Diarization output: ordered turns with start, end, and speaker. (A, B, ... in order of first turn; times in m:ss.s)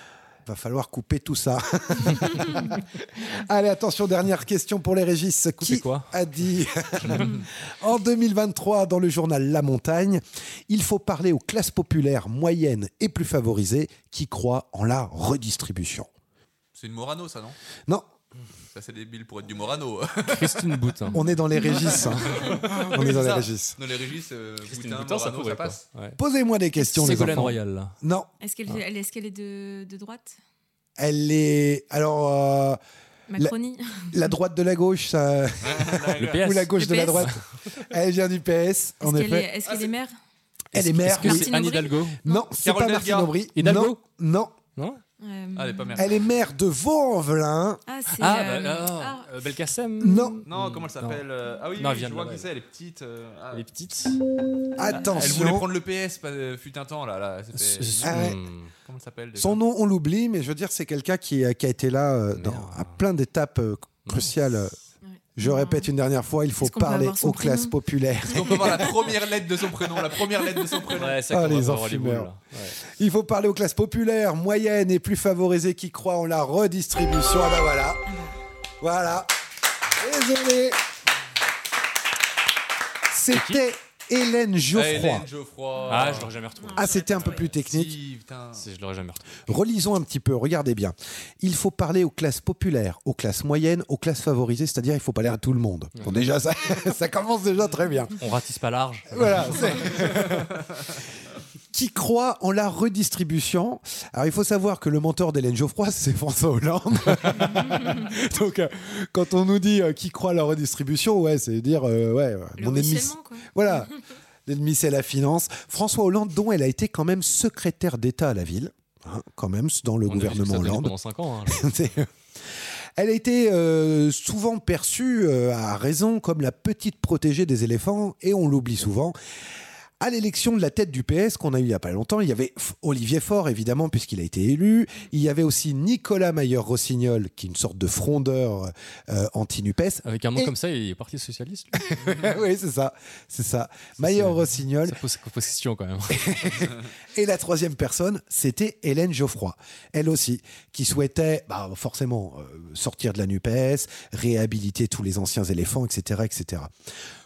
0:00.4-0:16.1 A
0:05.6-0:06.1 B
0:16.7-0:17.6 C
0:18.7-0:20.8 C
0:20.3-0:21.2 B
0:21.1-0:23.0 D
0:21.1-0:23.8 A
0:22.7-0:25.8 C
0:24.7-0:26.2 B
0:26.2-0:28.3 A
0:26.8-0:27.9 B
0:28.4-0:30.4 D
0:31.0-0:32.8 A
0:33.3-0:34.2 D
0:34.1-0:39.5 A
0:35.6-0:36.4 C
0:36.1-0:37.4 B
0:36.7-0:37.3 D
0:39.0-0:40.1 D
0:39.6-0:39.9 C
0:40.7-0:41.6 A
0:40.7-0:42.2 B
0:41.2-0:42.5 D
0:42.2-0:44.5 A
0:42.6-0:43.3 C
0:43.5-0:44.0 B
0:44.8-0:45.0 B
0:45.2-0:46.0 D
0:45.6-0:46.2 C
0:46.0-0:47.8 A
0:47.9-0:49.3 D
0:48.2-0:51.2 B
0:50.0-0:50.4 A
0:50.5-0:53.6 C
0:51.7-0:52.5 B
0:53.5-0:54.2 B
0:54.8-0:55.7 A
0:54.9-0:55.2 D
0:55.0-0:59.6 C
0:57.6-0:58.7 B
0:58.0-0:58.4 A
0:59.4-1:04.8 A
1:02.3-1:03.0 B
1:04.0-1:04.5 B
1:05.0-1:05.9 D
1:05.4-1:08.9 A
1:06.6-1:07.7 D
1:08.3-1:11.2 C
1:08.4-1:08.8 D
1:11.0-1:12.8 B
1:11.3-1:12.3 A
1:12.8-1:18.0 A
1:18.1-1:18.4 D
1:18.8-1:19.3 A
1:20.0-1:20.8 A
1:23.1-1:25.3 A
1:23.3-1:23.6 B
1:24.7-1:26.3 C
1:25.9-1:27.3 B
1:26.6-1:27.4 D
1:26.7-1:28.0 A
1:27.1-1:28.6 C
1:28.6-1:29.5 B
1:29.5-1:38.1 A
1:38.2-1:40.0 B
1:39.1-1:40.6 A
1:41.7-1:53.9 A
1:47.4-1:48.0 D
1:52.6-1:53.9 D
1:54.4-2:00.9 A
2:00.0-2:01.7 B
2:01.4-2:02.1 A
2:03.0-2:09.1 A
2:10.0-2:20.5 A
2:20.0-2:21.8 B
2:21.8-2:25.0 A
2:24.0-2:26.5 B
2:26.1-2:36.7 A